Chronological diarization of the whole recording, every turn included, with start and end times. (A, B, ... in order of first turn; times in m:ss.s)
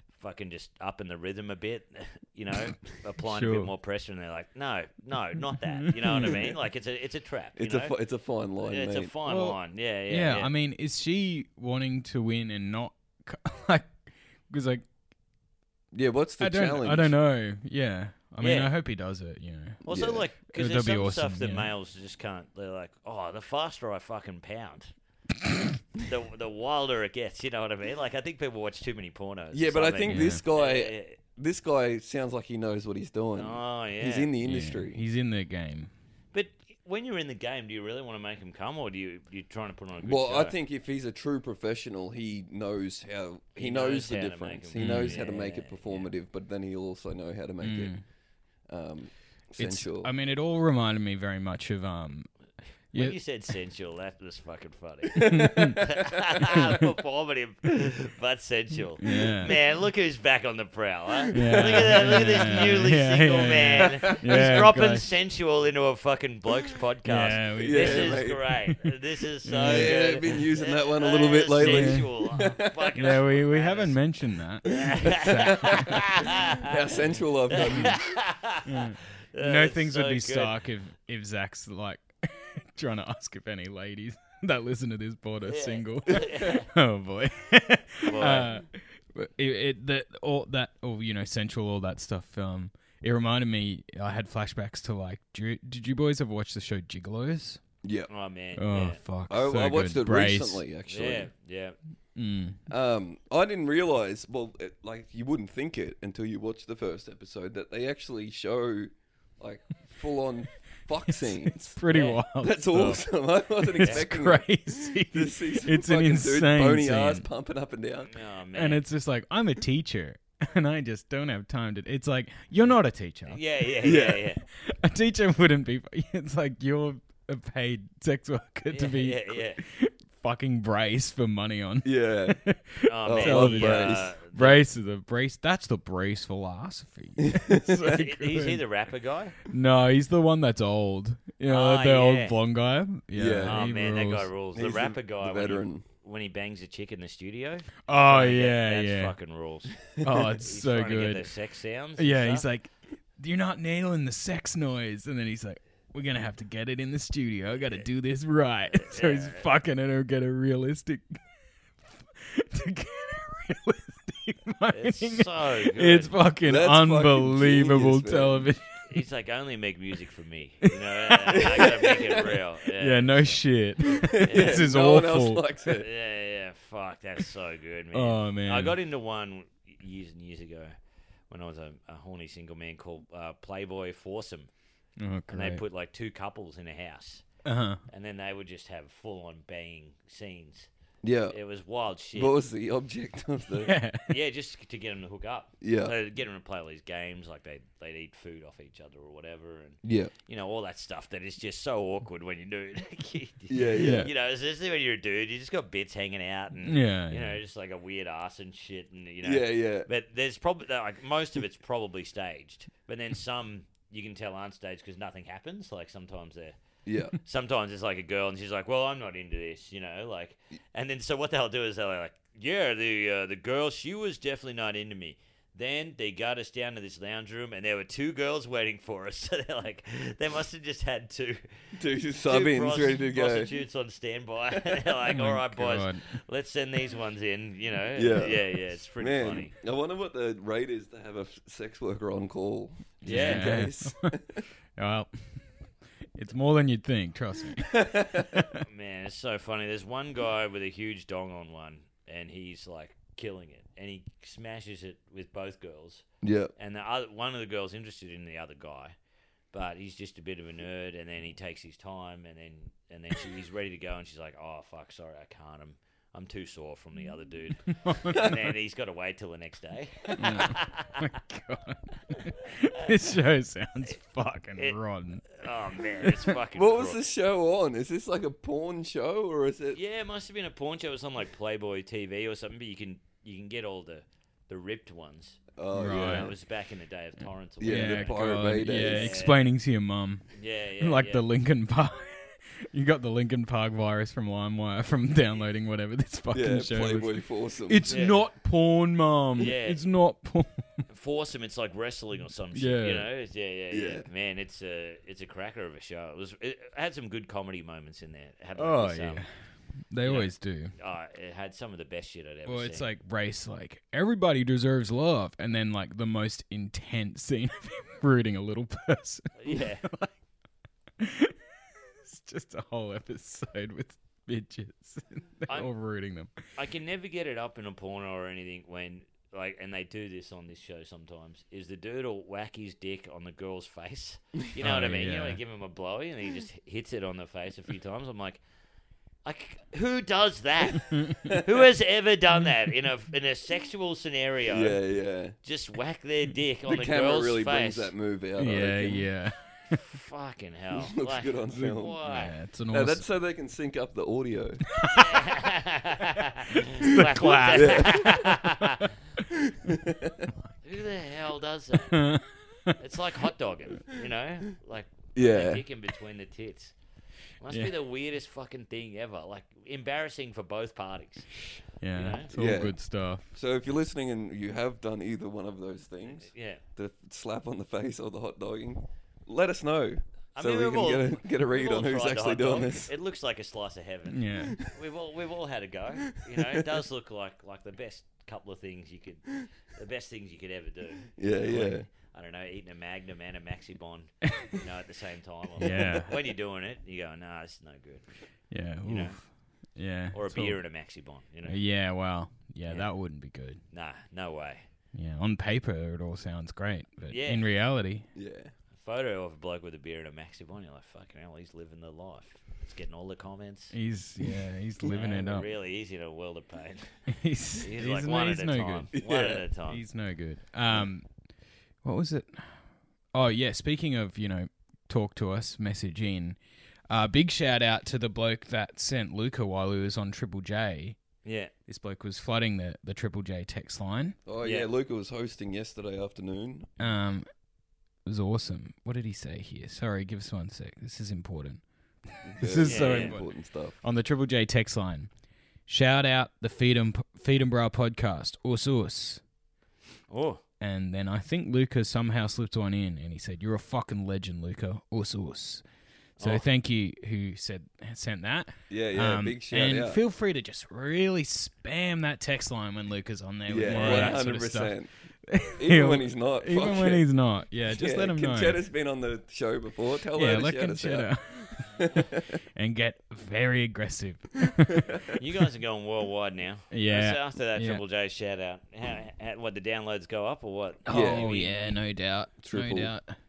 0:00.2-0:08.0 A
0:03.2-0:03.7 B
0:05.8-0:06.5 B
0:07.6-0:09.1 C
0:08.6-0:10.5 A
0:09.2-0:14.8 B
0:15.9-0:17.2 C
0:16.4-0:19.8 B
0:18.4-0:18.7 A
0:19.8-0:20.3 C
0:19.9-0:24.9 A
0:20.5-0:21.7 B
0:26.0-0:31.2 A
0:29.5-0:35.0 C
0:30.1-0:30.4 B
0:33.4-0:34.3 A
0:34.4-0:35.9 B
0:36.3-0:40.6 A
0:40.0-0:48.0 C
0:43.6-0:46.1 A
0:44.8-0:45.2 B
0:47.6-0:48.0 B
0:48.7-0:50.1 C
0:49.6-0:52.3 B
0:52.9-0:53.2 B
0:53.0-1:14.0 A
0:55.2-0:56.0 C
0:55.3-0:55.8 B
0:59.0-0:59.6 B
1:01.3-1:05.1 B
1:01.3-1:02.4 C
1:04.0-1:04.5 C
1:07.0-1:08.9 B
1:07.6-1:08.4 C
1:09.4-1:10.4 B
1:09.6-1:13.0 C
1:11.6-1:12.1 B
1:13.0-1:16.0 B
1:14.6-1:16.8 A
1:14.8-1:18.1 C
1:17.5-1:20.6 A
1:17.6-1:18.0 B
1:18.6-1:37.6 B
1:25.5-1:26.7 A
1:28.0-1:28.6 A
1:37.8-1:38.1 C
1:38.1-1:39.0 A
1:38.6-1:40.6 B
1:39.3-1:41.3 C
1:40.9-1:41.8 A
1:42.2-1:42.6 B
1:42.7-1:51.8 C
1:51.1-1:53.1 B
1:51.9-1:52.2 A
1:52.4-1:58.1 C
1:53.6-1:57.3 B
1:58.1-1:58.8 A
1:58.6-2:03.4 B
2:03.3-2:04.4 A
2:03.8-2:04.3 C
2:04.5-2:18.6 B
2:08.7-2:09.6 A
2:11.8-2:12.4 C
2:12.8-2:14.6 A
2:13.1-2:14.1 C
2:17.2-2:18.0 C
2:17.8-2:19.4 A
2:19.5-2:24.3 B
2:21.5-2:22.4 A
2:23.2-2:23.6 C
2:23.5-2:32.5 A
2:24.6-2:25.8 C
2:27.9-2:29.1 B
2:30.0-2:31.3 B
2:32.0-2:41.2 B
2:38.8-2:39.5 A
2:42.2-2:48.8 B
2:44.7-2:46.2 A
2:46.4-2:48.5 C
2:48.9-2:53.4 A
2:51.1-2:51.5 B
2:51.4-2:52.2 C
2:52.8-2:55.4 B
2:54.0-2:55.9 C
2:54.2-2:54.6 A
2:55.7-3:00.7 A
2:57.9-2:58.8 B
3:01.3-3:04.5 A
3:05.0-3:05.6 B
3:05.3-3:07.2 A
3:07.4-3:07.8 B
3:07.9-3:10.7 A
3:11.0-3:11.4 C
3:11.3-3:12.4 A
3:12.1-3:13.7 C
3:13.6-3:14.2 B
3:14.1-3:36.6 A
3:15.6-3:16.0 C
3:19.8-3:20.1 C
3:23.5-3:24.1 C
3:23.8-3:24.1 B
3:26.6-3:27.4 B
3:29.2-3:29.9 C
3:36.9-3:37.2 C
3:37.2-3:51.4 A
3:51.8-3:53.5 C
3:52.2-3:59.5 A
3:55.1-3:56.1 B
3:58.0-4:04.4 C
4:03.0-4:03.6 A
4:03.0-4:04.2 B
4:04.8-4:05.6 B
4:06.2-4:07.8 B
4:07.7-4:08.3 C
4:08.6-4:16.0 A
4:16.2-4:16.5 C
4:16.6-4:19.0 A
4:19.5-4:31.0 A
4:27.7-4:28.3 B
4:30.2-4:35.4 B
4:35.3-4:37.0 A
4:36.5-4:39.8 C
4:39.7-4:49.4 A
4:45.6-4:46.3 C
4:45.7-4:46.3 B
4:47.6-4:49.2 C
4:47.6-5:00.8 B
4:50.3-4:51.2 A
4:56.3-4:57.9 C
4:57.9-4:58.2 A
4:59.4-4:59.8 A
5:00.9-5:09.2 A
5:02.6-5:03.1 B
5:03.7-5:04.1 C
5:08.6-5:09.3 B
5:09.8-5:10.7 B
5:10.0-5:12.9 A
5:12.5-5:20.2 B
5:19.4-5:19.8 A
5:21.0-5:26.4 B
5:26.6-5:38.4 A
5:34.6-5:35.4 B
5:39.2-5:44.8 A
5:44.5-5:45.4 C
5:45.4-5:47.9 A
5:46.6-5:49.1 C
5:48.4-5:49.8 B
5:49.7-5:52.3 A
5:50.7-5:52.0 C
5:51.5-5:53.1 B
5:52.7-5:54.7 C
5:54.8-5:55.3 B
5:54.9-5:58.8 A
5:56.8-5:58.2 B
5:57.5-5:58.3 C
5:59.4-6:00.3 C
6:00.6-6:02.0 A
6:01.9-6:02.8 B
6:02.8-6:06.8 A
6:05.2-6:05.6 C
6:07.4-6:12.3 A
6:11.8-6:13.3 B
6:12.3-6:22.9 C
6:16.1-6:16.6 A
6:20.4-6:38.1 A
6:24.1-6:24.6 B
6:31.2-6:31.9 C
6:35.6-6:36.1 B
6:38.5-6:40.6 B
6:38.8-6:39.3 A
6:40.1-6:41.6 A
6:41.4-6:43.6 B
6:42.6-6:43.0 A
6:43.7-6:44.7 A
6:44.9-6:48.1 B
6:47.1-6:47.5 A
6:48.2-6:48.5 C
6:48.7-6:53.8 A
6:53.7-6:55.5 B
6:54.8-6:59.8 A
6:57.1-6:58.9 B
6:58.9-6:59.4 C
6:59.7-7:01.2 B
7:01.8-7:02.6 B
7:03.1-7:06.4 B
7:06.9-7:11.0 B
7:11.2-7:11.5 A
7:11.7-7:14.2 B
7:14.3-7:16.7 C
7:14.4-7:14.7 A
7:16.8-7:17.3 B
7:18.0-7:25.1 B
7:22.2-7:23.8 C
7:22.6-7:23.2 A
7:25.7-7:29.2 B
7:30.1-7:30.4 A
7:30.6-7:35.6 B
7:36.2-7:36.5 A
7:36.2-7:48.6 B
7:38.7-7:40.0 C
7:43.5-7:44.9 C
7:43.7-7:44.2 A
7:45.6-7:47.1 C
7:47.7-7:52.3 C
7:50.1-7:51.8 B
7:52.6-7:54.9 B
7:55.2-8:01.5 A
7:56.7-7:57.8 B
8:00.9-8:03.2 B
8:00.9-8:01.3 C
8:02.4-8:02.9 C